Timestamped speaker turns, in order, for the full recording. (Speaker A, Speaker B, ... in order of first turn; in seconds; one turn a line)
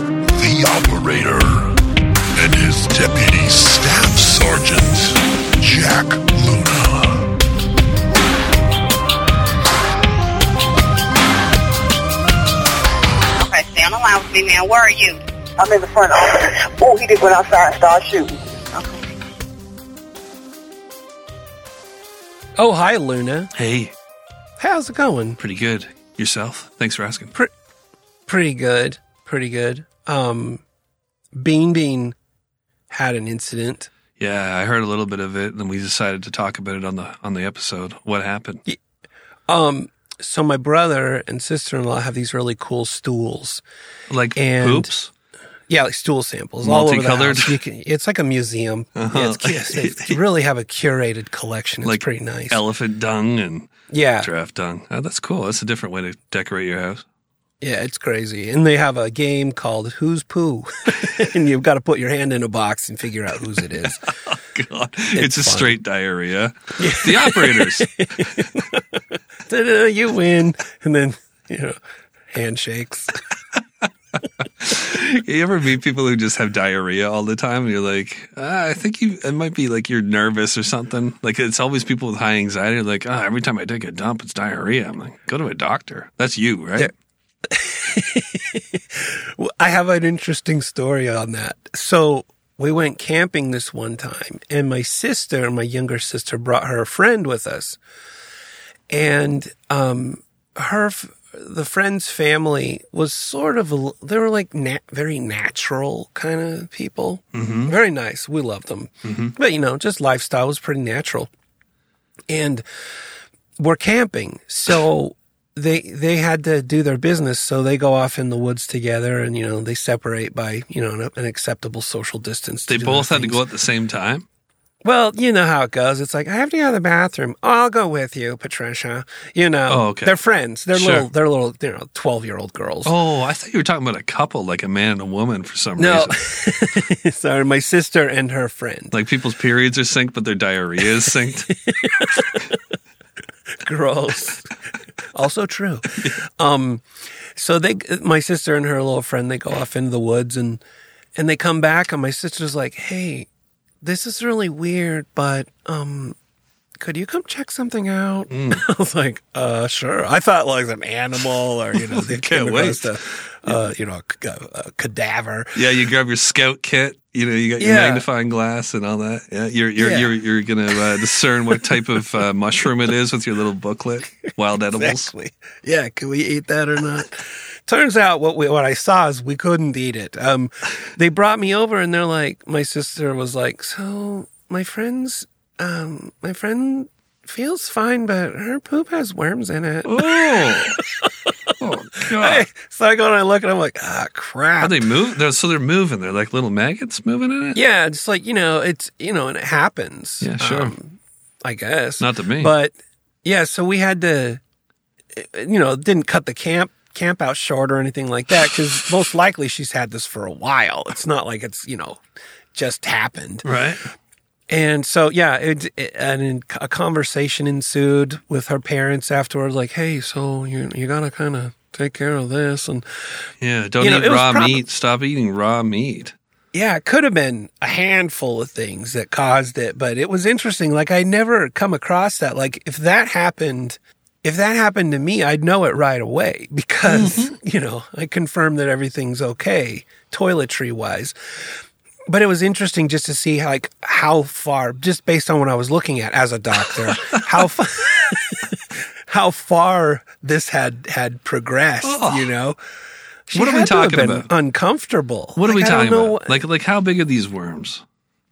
Speaker A: 0.3-1.8
Speaker A: 2.4-7.3
Speaker B: 13.3-15.2
Speaker C: 15.6-18.4
Speaker B: 18.7-19.1
Speaker D: 22.6-23.5
Speaker E: 23.6-23.9
Speaker D: 24.6-25.4
Speaker E: 25.4-27.3
Speaker D: 28.3-30.6
Speaker D: 31.3-32.2
Speaker D: 32.9-33.9
Speaker E: 34.2-38.6
Speaker D: 39.5-43.6
Speaker E: 44.1-45.1
Speaker D: 44.4-44.9
Speaker D: 45.7-52.6
Speaker E: 46.6-47.6
Speaker E: 49.0-50.2
Speaker E: 51.8-57.0
Speaker D: 53.9-54.3
Speaker D: 57.6-64.0
Speaker E: 63.7-68.5
Speaker D: 65.2-65.8
Speaker D: 66.8-73.2
Speaker E: 74.5-86.9
Speaker D: 87.5-97.8
Speaker D: 98.9-111.3
Speaker E: 107.3-107.7
Speaker E: 109.0-109.3
Speaker D: 112.3-112.7
Speaker D: 113.6-123.4
Speaker E: 122.7-124.2
Speaker D: 124.8-132.9
Speaker E: 129.7-130.2
Speaker E: 130.7-131.1
Speaker E: 132.8-136.2
Speaker D: 135.8-138.9
Speaker E: 138.9-141.5
Speaker D: 141.5-142.6
Speaker D: 143.6-144.5
Speaker D: 145.1-150.6
Speaker D: 151.2-153.3
Speaker D: 153.8-156.2
Speaker D: 156.8-165.5
Speaker E: 158.3-158.6
Speaker E: 161.8-162.9
Speaker E: 165.6-175.1
Speaker D: 167.6-168.1
Speaker D: 169.8-170.1
Speaker D: 174.7-191.3
Speaker E: 189.8-190.8
Speaker E: 191.6-192.5
Speaker D: 192.0-194.9
Speaker E: 194.6-197.6
Speaker D: 197.5-204.4
Speaker E: 200.2-200.7
Speaker E: 202.0-202.5
Speaker D: 205.1-212.0
Speaker D: 212.5-213.4
Speaker E: 213.4-213.9
Speaker D: 214.5-222.9
Speaker E: 223.4-226.2
Speaker D: 223.8-224.6
Speaker D: 226.5-241.5
Speaker E: 236.9-237.3
Speaker D: 242.1-252.6
Speaker E: 251.8-252.3
Speaker D: 253.3-256.4
Speaker E: 253.3-254.3
Speaker E: 255.4-257.8